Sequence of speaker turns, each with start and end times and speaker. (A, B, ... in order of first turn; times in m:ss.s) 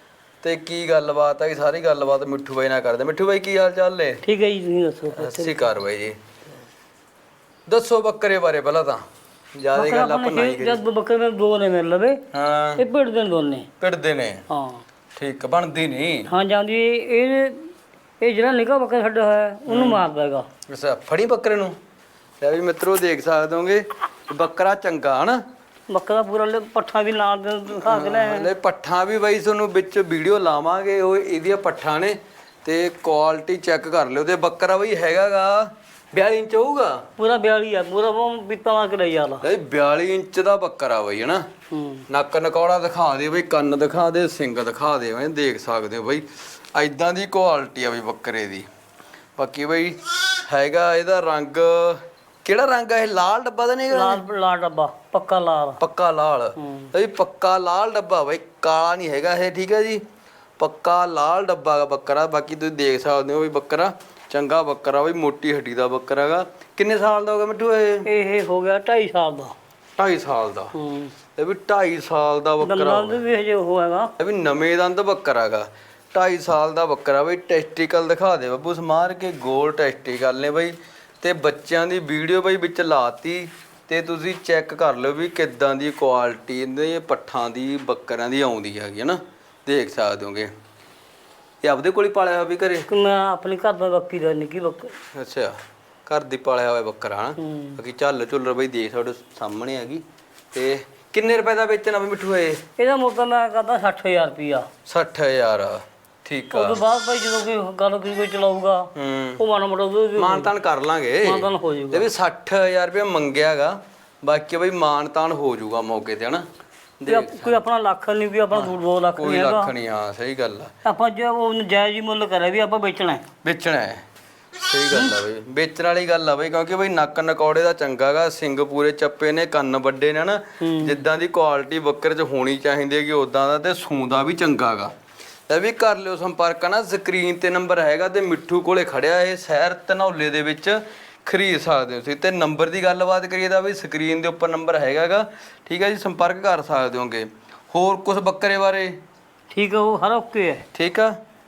0:00.4-0:04.2 A
0:04.2-0:05.7 B
0:05.2-0:06.2 A
0:07.7-0:09.0 A
0:09.6-0:10.8 A
0:09.8-0:12.2 B
0:12.3-0:12.8 A
0:12.8-0:13.7 B
0:13.8-0:14.4 A
0:14.5-0:14.8 B
0:15.2-0:16.3 A
0:16.3-0:17.7 B
0:18.2-0:20.5 B
0:19.7-0:20.0 A
0:20.7-0:21.8 A
0:22.4-0:25.4 A
0:25.9-0:28.5 B
0:27.8-0:37.1 A
0:37.2-0:39.4 B
0:39.4-0:41.5 A
0:41.7-0:42.1 B
0:42.1-0:48.7 A
0:49.4-0:54.2 A
0:53.9-0:55.8 B
0:55.8-1:00.0 A
0:56.6-0:56.9 B
1:00.6-1:08.1 A
1:08.0-1:09.6 B
1:10.0-1:10.7 A
1:10.7-1:11.1 B
1:11.4-1:13.2 A
1:12.6-1:14.1 B
1:14.2-1:30.5 A
1:31.6-1:32.9 A
1:32.9-1:34.9 B
1:35.1-1:42.6 A
1:37.4-1:37.8 B
1:42.8-1:44.7 B
1:44.9-1:46.8 A
1:46.5-1:50.5 B
1:49.0-1:49.4 A
1:50.2-1:56.4 A
1:51.2-1:52.1 B
1:57.0-1:57.6 A
1:57.1-1:59.7 B
1:58.5-2:00.7 A
2:00.8-2:03.2 B
2:03.4-2:04.0 A
2:04.6-2:14.9 A
2:10.6-2:11.0 B
2:15.5-2:29.0 A
2:29.5-2:30.6 B
2:30.7-2:31.2 A